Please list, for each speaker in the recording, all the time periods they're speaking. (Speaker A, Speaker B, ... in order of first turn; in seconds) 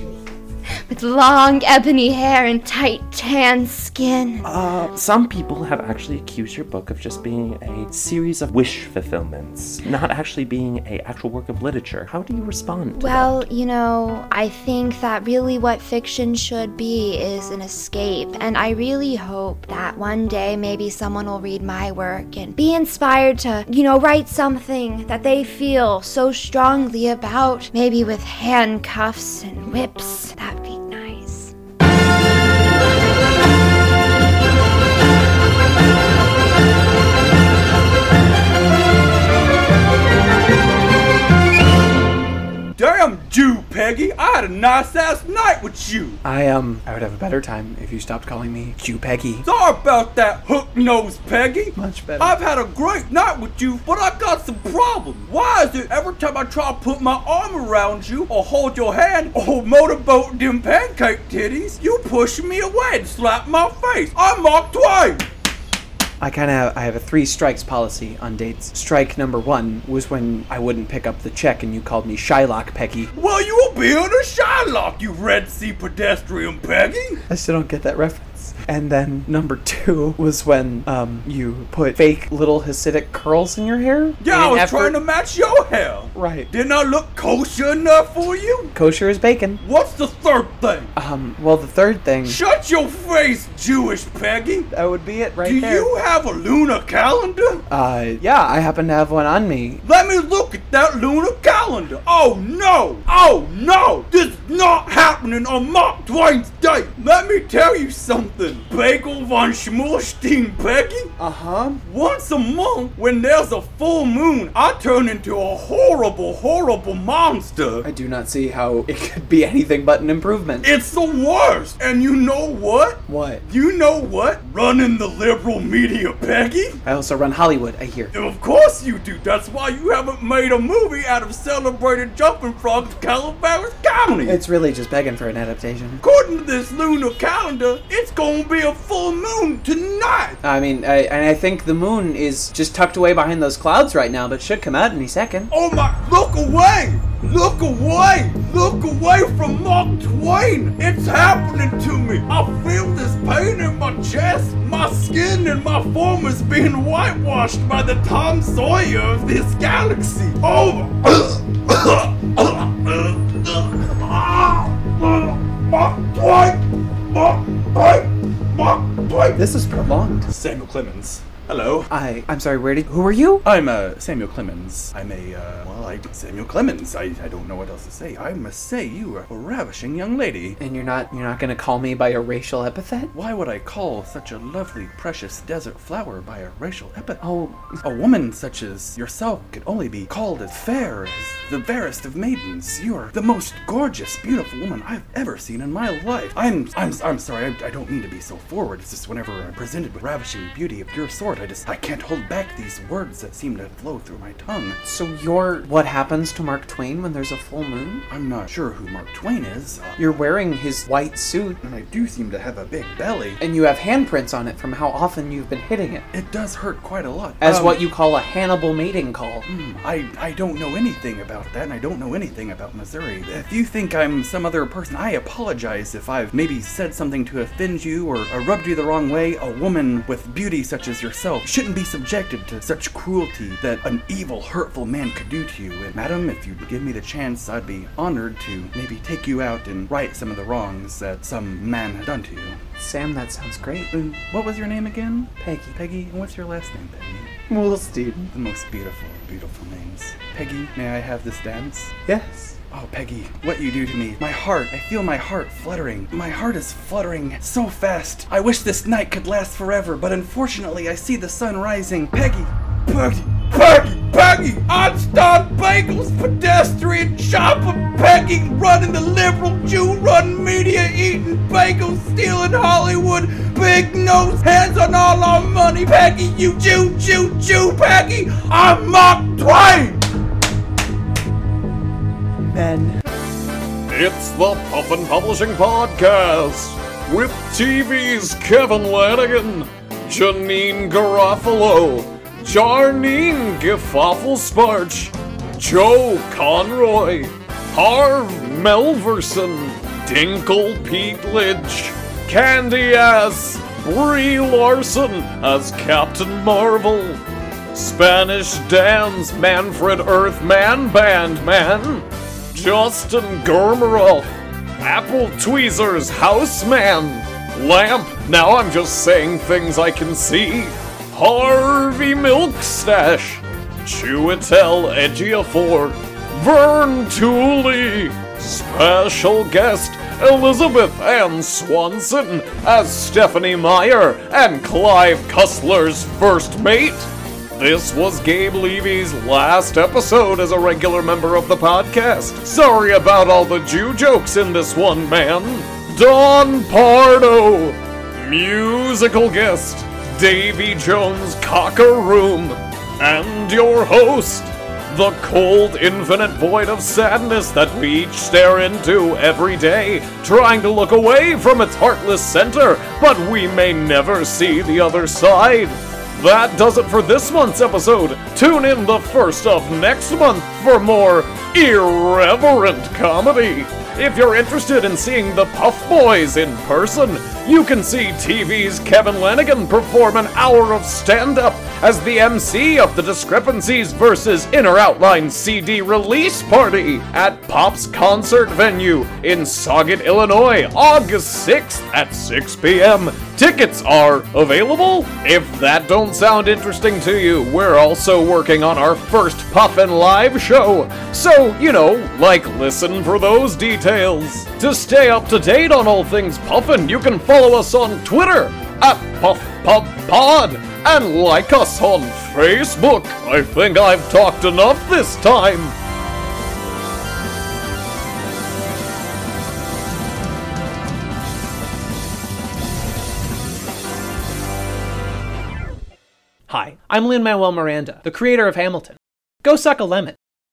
Speaker A: 0.9-4.5, 12.9-31.5
Speaker B: 4.4-13.5
Speaker C: 42.8-46.2, 49.4-65.2, 73.1-77.2, 84.2-88.7, 89.6-90.9, 92.2-94.7, 95.4-97.6, 99.8-111.1, 111.8-117.9, 120.6-126.8, 128.1-134.3, 136.0-140.4, 145.5-169.4, 170.6-171.5, 262.9-280.1
Speaker D: 46.2-49.4, 51.8-52.4, 66.2-73.1, 77.3-85.0, 86.1-86.5, 88.7-89.6, 91.0-92.4, 94.7-95.9, 97.7-99.8, 111.2-111.8, 117.8-120.7, 123.1-123.4, 126.8-128.1, 134.2-136.0, 140.4-145.5, 169.4-170.3, 171.9-173.4, 180.6-183.1, 187.2-187.8, 204.8-208.0, 209.9-211.6, 213.4-216.1, 217.4-219.4, 242.8-243.9, 245.4-245.8, 247.5-248.3, 252.1-252.6, 282.4-283.0
Speaker E: 173.4-180.6, 183.1-187.2, 187.8-204.8, 208.1-210.0, 211.6-213.4, 216.1-217.8, 219.5-242.6, 243.9-247.4, 248.3-251.9, 252.7-262.5
Speaker F: 283.9-307.2, 307.7-314.3, 314.8-415.7
Speaker G: 426.5-430.1